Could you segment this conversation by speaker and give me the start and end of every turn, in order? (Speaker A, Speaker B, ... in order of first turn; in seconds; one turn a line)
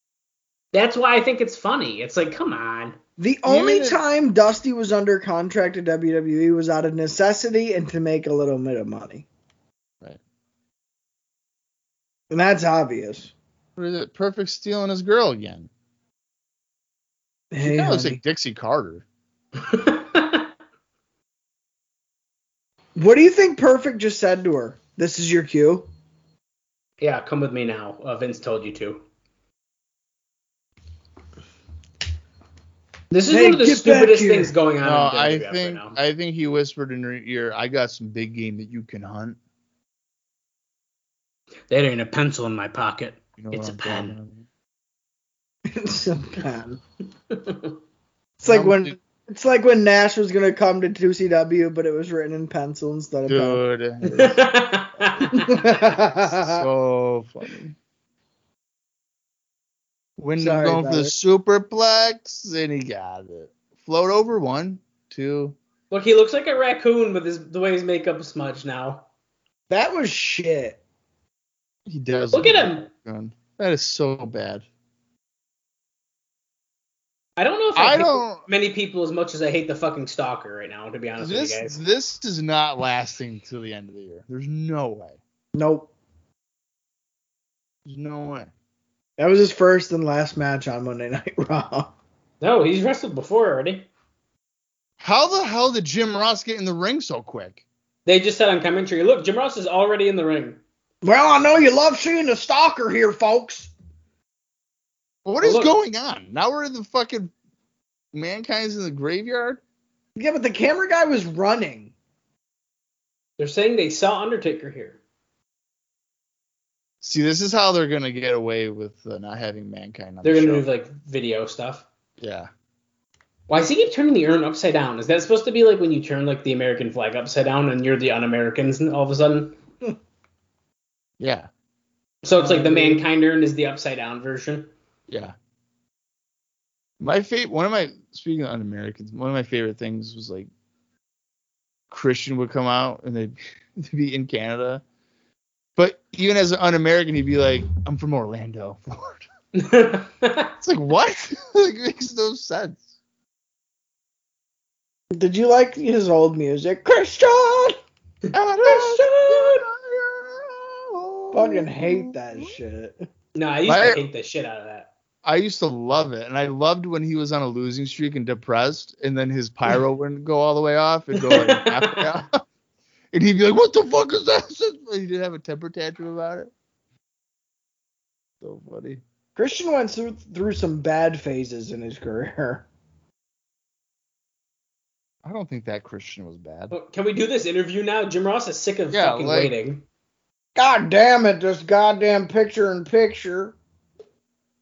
Speaker A: 0.7-3.0
Speaker B: 3.2-9.3
Speaker C: 3.5-4.0
Speaker B: 12.3-13.3
Speaker C: 13.8-15.7
Speaker B: 17.5-18.2
Speaker C: 17.6-19.1
Speaker A: 19.6-20.5
Speaker B: 23.0-25.9
Speaker A: 27.0-29.0
Speaker A: 33.1-36.0
Speaker B: 33.3-34.5
Speaker C: 34.8-39.4
Speaker A: 41.7-44.2
Speaker C: 43.4-44.5
Speaker B: 45.7-46.8
Speaker A: 47.3-47.8
Speaker B: 48.4-53.6
Speaker C: 48.5-49.0
Speaker C: 53.3-54.5
Speaker A: 54.1-55.6
Speaker B: 55.4-56.6
Speaker C: 56.2-57.8
Speaker C: 60.2-65.6
Speaker B: 60.4-61.1
Speaker A: 65.9-69.1
Speaker B: 69.7-70.8
Speaker C: 71.9-74.7
Speaker A: 72.3-72.9
Speaker A: 77.4-81.8
Speaker C: 77.8-78.5
Speaker C: 81.2-85.2
Speaker B: 85.5-85.9
Speaker C: 87.9-88.5
Speaker B: 89.2-91.9
Speaker A: 92.4-93.9
Speaker C: 95.0-97.6
Speaker A: 98.1-100.6
Speaker B: 101.0-103.7
Speaker C: 105.2-107.3
Speaker A: 105.4-105.7
Speaker C: 108.1-109.6
Speaker B: 110.2-111.9
Speaker A: 113.4-115.0
Speaker C: 117.0-120.7
Speaker A: 120.2-121.9
Speaker C: 122.2-122.5
Speaker A: 123.5-129.6
Speaker C: 131.2-131.5
Speaker A: 132.2-134.7
Speaker B: 132.4-133.1
Speaker C: 135.1-135.3
Speaker C: 137.0-140.5
Speaker C: 141.9-144.8
Speaker C: 145.8-149.3
Speaker A: 149.5-150.5
Speaker C: 150.6-152.9
Speaker B: 155.1-157.8
Speaker C: 158.3-162.6
Speaker A: 158.7-159.4
Speaker B: 158.8-159.3
Speaker B: 161.3-163.0
Speaker A: 163.3-164.9
Speaker C: 163.7-164.0
Speaker C: 165.2-172.4
Speaker A: 171.2-172.1
Speaker C: 173.1-176.5
Speaker C: 178.4-179.0
Speaker B: 179.4-182.7
Speaker C: 185.2-186.7
Speaker A: 186.7-189.8
Speaker C: 188.9-189.5
Speaker B: 190.6-193.6